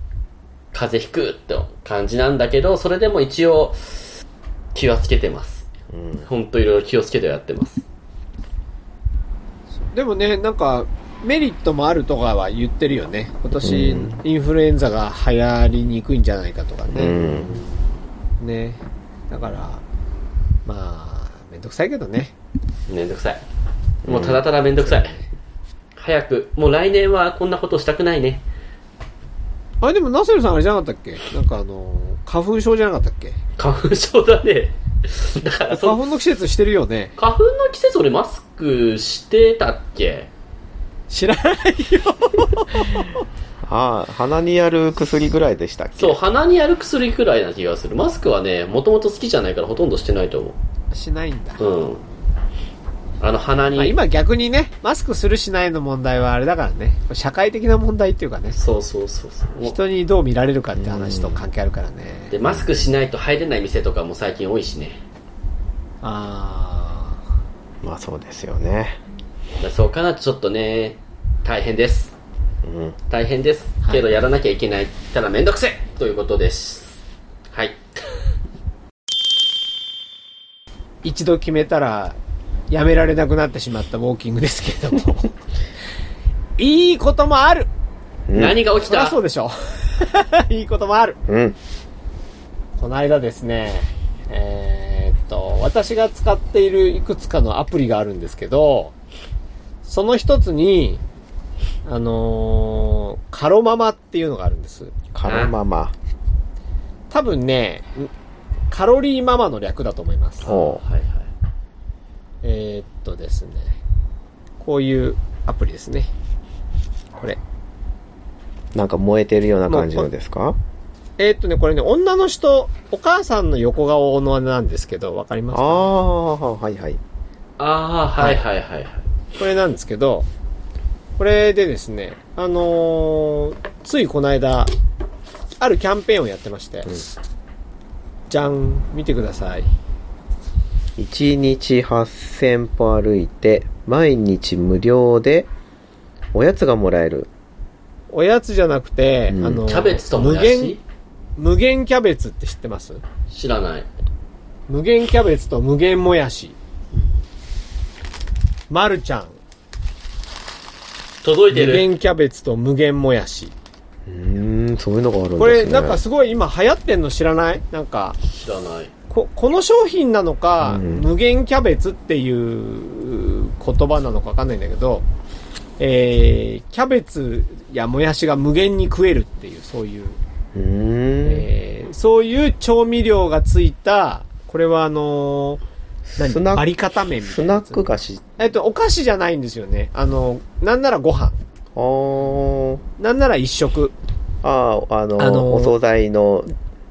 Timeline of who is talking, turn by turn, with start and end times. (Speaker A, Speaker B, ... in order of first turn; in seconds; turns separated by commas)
Speaker A: 0.7-4.1, Speaker A: 4.7-5.7, Speaker B: 5.9-6.3, Speaker A: 6.2-7.8, Speaker C: 9.9-17.2, Speaker B: 13.6-14.2, Speaker B: 16.9-17.6, Speaker A: 17.1-17.7, Speaker C: 18.4-19.8, Speaker C: 20.6-22.3, Speaker A: 22.9-23.4, Speaker A: 24.0-25.2, Speaker B: 24.1-24.4, Speaker C: 24.8-25.3, Speaker A: 25.9-28.4, Speaker C: 29.8-33.4, Speaker A: 33.6-36.0, Speaker C: 35.7-37.1, Speaker A: 37.2-40.3, Speaker C: 41.1-43.2, Speaker B: 43.6-46.2, Speaker A: 46.0-50.6, Speaker C: 50.9-51.7, Speaker A: 51.6-52.0, Speaker A: 53.2-54.0, Speaker C: 53.8-58.6, Speaker A: 58.5-59.8, Speaker C: 59.6-62.3, Speaker B: 60.8-61.4, Speaker A: 62.3-65.0, Speaker B: 62.4-62.9, Speaker C: 66.0-67.2, Speaker B: 67.8-69.0, Speaker A: 69.6-72.1, Speaker B: 72.6-73.0, Speaker A: 73.1-77.0, Speaker A: 77.5-78.0, Speaker C: 81.0-82.2, Speaker C: 82.7-85.4, Speaker C: 86.6-87.7, Speaker B: 88.3-88.6, Speaker A: 88.3-89.2, Speaker C: 88.8-91.2, Speaker B: 91.3-91.6, Speaker C: 92.8-98.9, Speaker C: 99.8-101.0, Speaker C: 101.8-104.9, Speaker B: 105.1-105.9, Speaker A: 105.2-105.5, Speaker C: 107.1-108.1, Speaker C: 108.7-110.5, Speaker A: 110.4-111.3, Speaker B: 110.4-110.8, Speaker C: 112.4-113.8, Speaker C: 114.6-116.1, Speaker B: 118.7-120.6, Speaker C: 119.7-120.1, Speaker C: 121.2-125.9, Speaker B: 125.5-127.0, Speaker A: 127.6-129.1, Speaker C: 129.4-130.3, Speaker C: 131.2-134.7, Speaker C: 135.6-137.1, Speaker C: 138.3-139.7, Speaker B: 141.0-145.5, Speaker B: 146.3-147.3, Speaker C: 148.1-150.8, Speaker B: 149.3-149.6, Speaker A: 149.6-150.8, Speaker C: 151.4-153.0, Speaker A: 153.3-153.9, Speaker C: 154.7-156.6, Speaker A: 156.9-157.2, Speaker C: 158.7-159.4, Speaker A: 161.2-161.9, Speaker C: 161.5-163.5, Speaker B: 164.1-166.0, Speaker C: 165.4-168.2, Speaker A: 168.2-168.9, Speaker C: 169.1-175.1, Speaker B: 170.6-171.1, Speaker C: 175.8-180.2, Speaker B: 180.5-181.5, Speaker C: 181.2-185.6, Speaker B: 186.1-186.7, Speaker C: 186.2-187.8, Speaker B: 187.2-188.3, Speaker C: 188.4-191.4, Speaker B: 191.7-192.8, Speaker C: 193.0-193.9, Speaker B: 194.4-196.5, Speaker C: 195.2-195.7